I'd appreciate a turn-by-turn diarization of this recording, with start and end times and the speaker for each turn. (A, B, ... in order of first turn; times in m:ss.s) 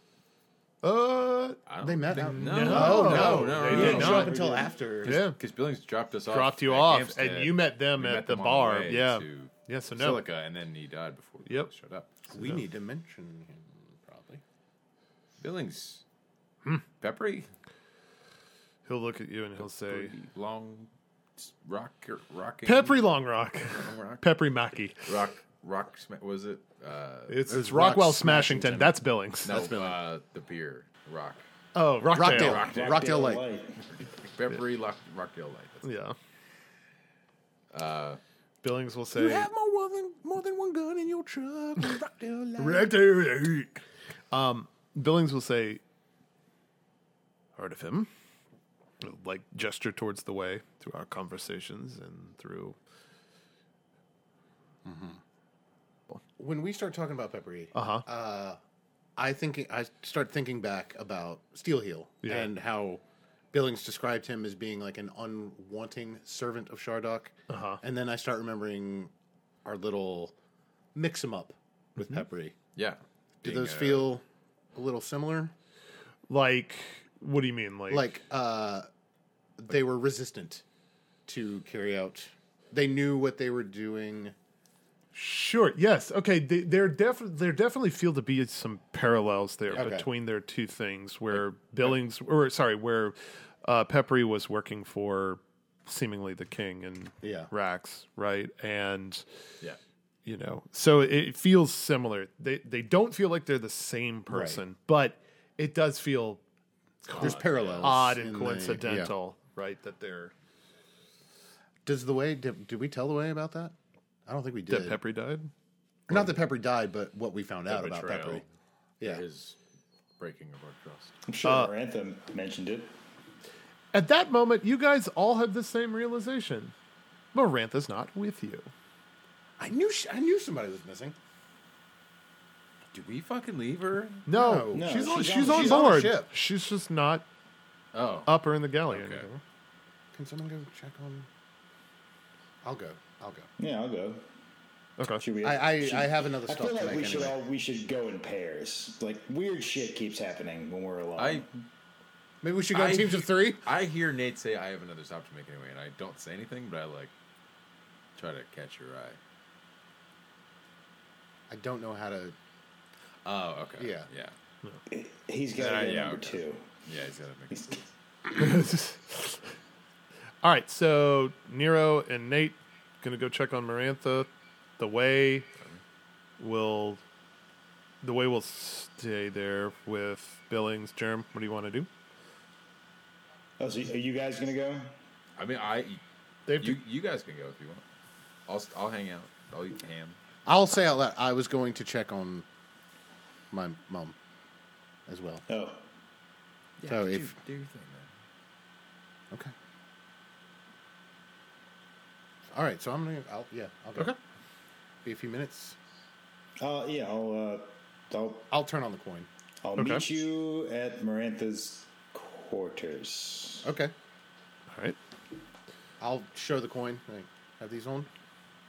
0:00.8-0:04.3 A
0:01.6-0:04.4 B
0:01.8-0:05.2 C
0:03.2-0:04.7 D
0:05.0-0:12.1 B
0:05.0-0:05.4 A
0:06.3-0:10.2 A
0:11.4-0:11.7 A
0:12.3-0:14.4 C
0:15.4-0:16.0 B
0:17.0-0:17.5 B
0:18.8-0:20.1 A
0:19.6-0:23.0 B
0:22.6-0:25.1 A
0:23.7-0:24.2 B
0:25.0-0:27.5 B
0:27.3-0:29.6 A
0:27.5-0:30.0 C
0:29.4-0:31.4 B
0:31.7-0:32.6 A
0:32.1-0:33.4 C
0:32.2-0:33.1 B
0:32.6-0:33.8 D
0:34.2-0:35.8 B
0:35.8-0:36.2 A
0:37.7-0:38.2 B
0:38.6-0:39.5 A
0:39.1-0:42.9 C
0:42.6-0:43.8 A
0:44.3-0:45.8 A
0:47.6-0:48.1 A
0:49.0-0:52.8 A
0:54.8-0:55.2 C
0:56.4-0:58.6 C
0:57.7-0:58.0 A
0:59.2-1:09.1 C
1:02.2-1:02.5 A
1:07.5-1:07.8 A
1:09.6-1:10.3 C
1:10.9-1:12.5 C
1:12.0-1:12.2 A
1:12.7-1:14.1 B
1:13.4-1:14.2 C
1:14.7-1:15.5 C
1:16.3-1:18.1 A
1:17.9-1:18.9 C
1:19.6-1:20.6 C
1:21.2-1:24.3 C
1:25.1-1:39.2 A
1:29.7-1:30.1 C
1:37.2-1:37.5 C
1:40.2-1:46.4 A
1:44.3-1:44.6 C
1:47.0-1:50.3 A
1:47.1-1:48.0 B
1:47.2-1:49.1 C
1:51.8-1:53.7 C
1:54.2-1:55.0 C
1:54.7-1:55.5 A
1:56.1-1:58.4 C
1:57.7-1:58.4 B
1:59.0-1:59.6 B
2:00.2-2:01.1 B
2:01.2-2:02.9 D
2:01.4-2:01.7 A
2:03.9-2:06.7 A
2:07.3-2:08.7 A
2:09.6-2:11.2 C
2:12.9-2:14.3 B
2:14.2-2:17.2 A
2:14.3-2:16.3 C
2:14.7-2:15.9 D
2:17.9-2:18.3 B
2:18.3-2:19.4 A
2:18.9-2:19.2 B
2:20.1-2:21.3 C
2:22.6-2:23.5 C
2:23.6-2:24.2 D
2:25.0-2:25.2 A
2:25.2-2:31.6 D
2:25.4-2:27.4 C
2:31.2-2:31.4 B
2:32.4-2:33.6 C
2:32.7-2:37.1 B
2:38.2-2:39.2 B
2:41.5-2:42.3 C
2:43.2-2:44.3 B
2:43.8-2:44.1 C
2:44.9-2:46.6 D
2:45.5-2:47.8 B
2:47.5-2:47.8 D
2:48.3-2:49.5 A
2:50.4-2:55.5 A
2:56.4-2:57.0 A
2:58.0-3:01.9 A
3:03.6-3:05.0 D
3:05.4-3:06.0 B
3:06.5-3:06.8 A
3:06.6-3:07.8 B
3:08.5-3:10.2 B
3:10.4-3:12.4 C
3:13.5-3:14.2 C
3:15.1-3:15.4 C
3:15.5-3:15.8 D
3:16.8-3:18.1 B
3:16.9-3:17.3 C
3:22.5-3:24.1 C
3:25.0-3:25.8 C
3:26.6-3:28.5 D
3:28.5-3:29.3 C
3:29.6-3:33.7 D
3:29.8-3:30.0 A
3:33.6-3:33.9 C
3:34.7-3:35.0 A
3:36.0-3:38.1 C